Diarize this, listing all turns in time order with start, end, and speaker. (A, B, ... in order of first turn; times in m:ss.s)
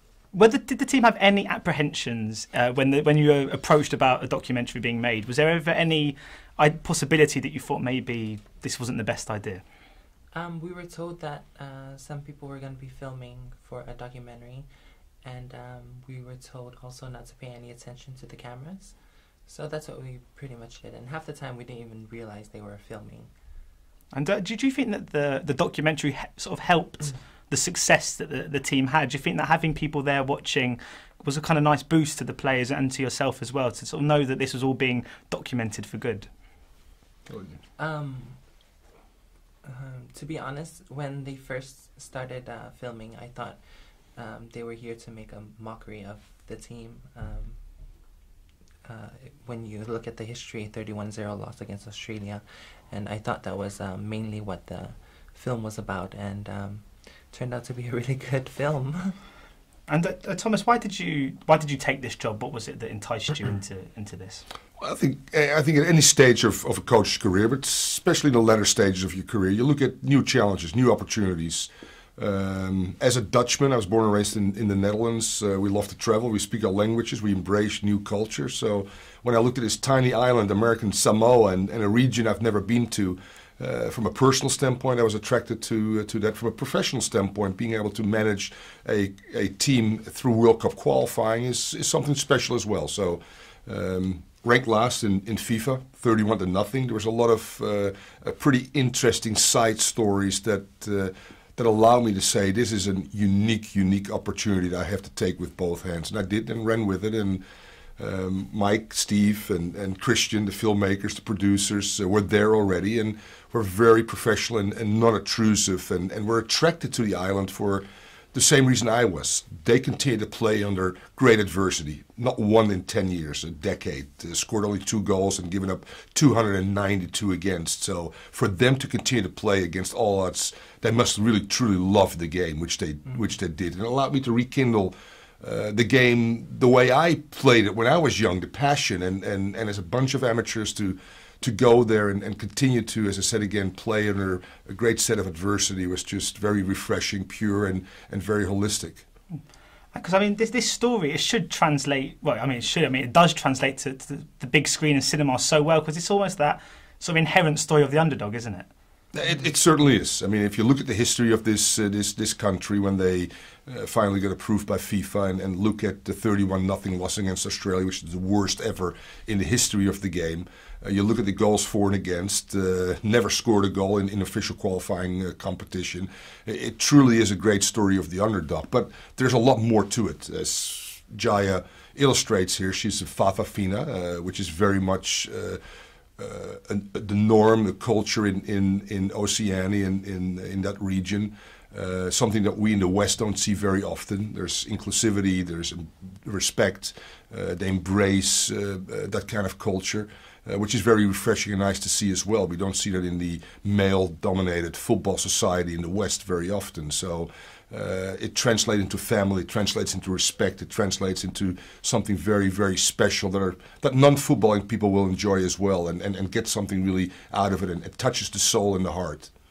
0:00.3-0:09.6 A
0:10.3-0:14.7 B
0:15.2-0:23.3 B
0:24.1-0:36.3 A
0:37.3-0:37.6 C
0:37.8-0:38.5 B
0:39.6-0:43.6 B
0:44.1-0:47.6 B
0:48.8-0:59.2 B
0:59.9-1:04.4 A
1:04.8-1:47.4 C
1:48.0-2:29.0 C
2:29.9-2:38.7 A
2:39.1-3:05.6 C
3:06.2-3:39.3 C